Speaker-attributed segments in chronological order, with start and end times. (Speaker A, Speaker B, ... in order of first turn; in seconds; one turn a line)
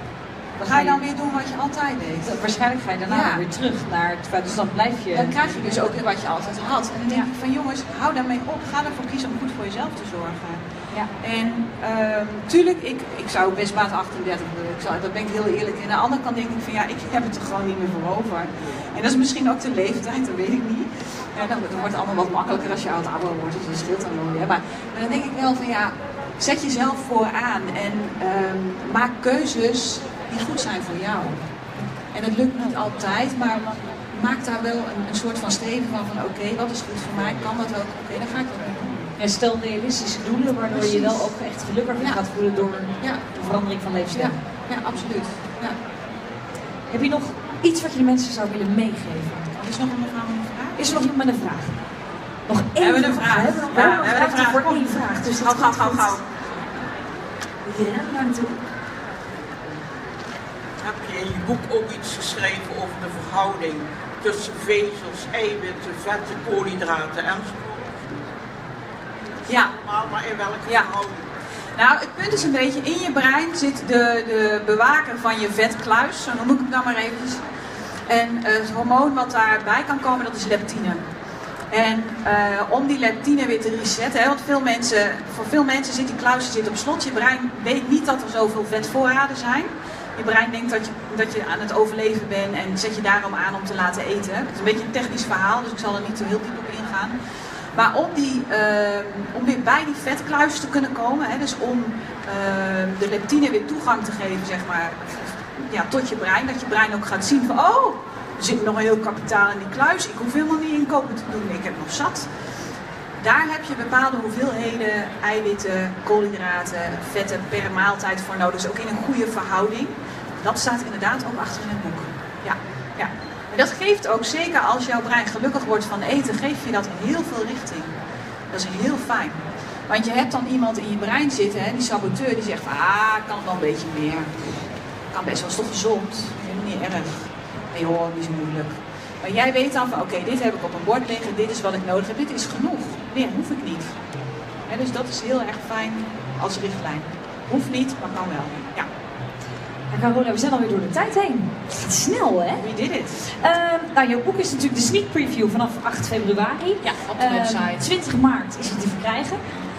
Speaker A: 0.6-1.0
Speaker B: 0.6-2.4
Speaker A: 2.2-6.0
Speaker B: 3.1-3.4
Speaker B: 5.1-10.6
Speaker B: 11.2-31.4
Speaker B: 32.1-39.1
Speaker A: 39.2-44.4
Speaker B: 40.7-41.2
Speaker B: 42.0-42.2
Speaker B: 44.1-45.8
Speaker A: 46.9-49.5
Speaker B: 49.5-50.9
Speaker A: 50.8-51.8
Speaker A: 52.5-56.2
Speaker B: 52.8-56.2
Speaker A: 57.6-58.6
Speaker C: 60.8-68.2
Speaker C: 69.4-71.2
Speaker B: 69.5-69.7
Speaker B: 70.7-70.9
Speaker B: 71.7-77.4
Speaker B: 78.1-81.0
Speaker B: 81.7-97.2
Speaker B: 97.7-112.3
Speaker B: 113.2-127.9
Speaker B: 128.5-134.5
Speaker B: 135.1-144.0
Speaker B: 144.7-148.9
Speaker A: 149.9-152.7
Speaker B: 152.6-153.3
Speaker A: 153.3-159.4
Speaker B: 156.8-157.9